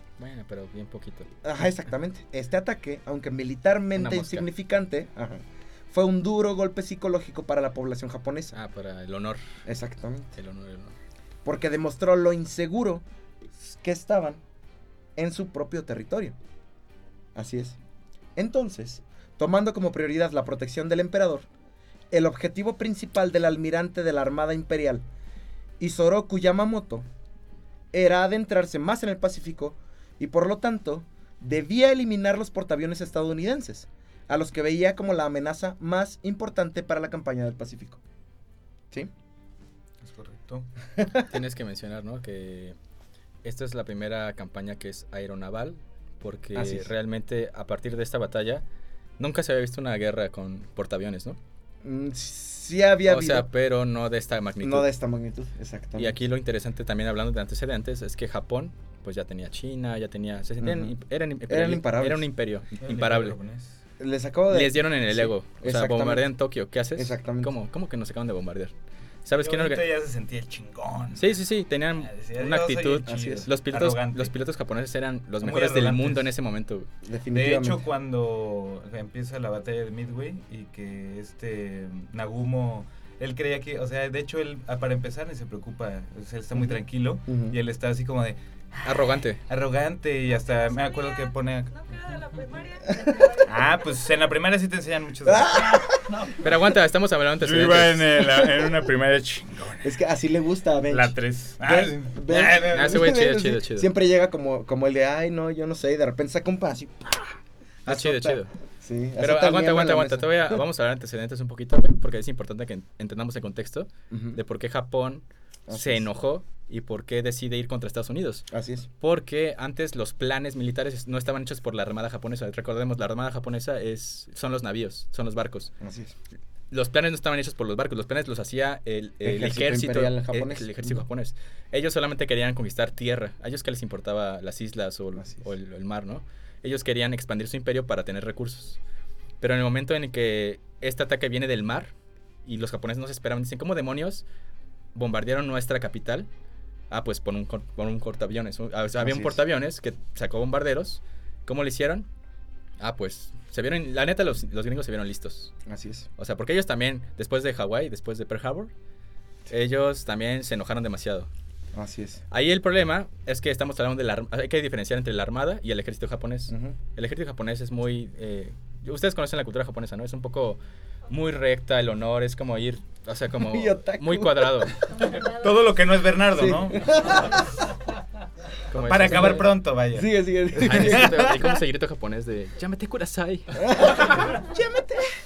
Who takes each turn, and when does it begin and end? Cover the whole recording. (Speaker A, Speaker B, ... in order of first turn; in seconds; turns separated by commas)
Speaker A: 0.2-1.3, Speaker B: 1.4-8.6, Speaker A: 4.0-4.5, Speaker A: 8.5-9.4, Speaker B: 9.7-10.3, Speaker A: 10.4-10.9, Speaker B: 11.4-13.0, Speaker B: 13.6-14.4, Speaker B: 15.2-16.4, Speaker B: 17.4-17.8, Speaker B: 18.4-21.5, Speaker B: 22.1-25.1, Speaker B: 25.8-27.1, Speaker B: 27.9-38.0, Speaker C: 40.0-40.7, Speaker B: 41.0-41.3, Speaker A: 41.3-42.8, Speaker A: 43.4-48.6, Speaker B: 46.5-46.9, Speaker A: 49.2-51.4, Speaker B: 51.8-53.5, Speaker A: 53.1-54.9, Speaker B: 54.6-56.2, Speaker A: 56.0-63.4, Speaker B: 60.6-60.9, Speaker B: 61.5-62.3, Speaker C: 62.8-63.8, Speaker B: 64.0-66.3, Speaker A: 64.5-68.7, Speaker B: 67.0-67.5, Speaker A: 69.2-69.8, Speaker C: 69.3-71.4, Speaker A: 71.2-76.9, Speaker C: 72.0-74.3, Speaker B: 73.1-73.5, Speaker C: 75.4-76.3, Speaker B: 77.0-77.9, Speaker C: 77.3-91.7, Speaker B: 86.5-87.6, Speaker A: 88.8-89.4, Speaker D: 90.2-94.2, Speaker B: 92.9-93.4, Speaker C: 93.4-96.4, Speaker B: 95.2-96.2, Speaker A: 96.3-98.2, Speaker C: 97.4-100.0, Speaker B: 99.8-110.7, Speaker C: 100.9-103.1, Speaker A: 102.7-103.9, Speaker A: 107.9-108.5, Speaker A: 109.2-118.5, Speaker B: 114.1-114.4, Speaker B: 115.7-116.1, Speaker B: 118.5-118.9, Speaker A: 119.0-125.7, Speaker B: 125.8-126.2, Speaker A: 126.7-138.8, Speaker B: 129.2-131.1, Speaker B: 135.2-135.5, Speaker A: 139.4-141.9, Speaker A: 142.4-144.2, Speaker A: 144.9-146.3, Speaker A: 146.9-152.1, Speaker B: 149.0-149.4, Speaker A: 152.8-155.5, Speaker B: 155.7-156.1, Speaker A: 156.2-158.7, Speaker A: 159.5-161.3, Speaker B: 161.7-162.2, Speaker A: 162.3-174.8, Speaker B: 166.5-166.8, Speaker B: 173.4-174.8, Speaker D: 175.0-175.7, Speaker C: 175.1-177.4, Speaker B: 176.3-177.4, Speaker A: 178.7-179.5, Speaker C: 178.7-181.6, Speaker B: 179.1-179.4, Speaker B: 179.9-181.4, Speaker A: 180.6-184.4, Speaker B: 183.6-185.1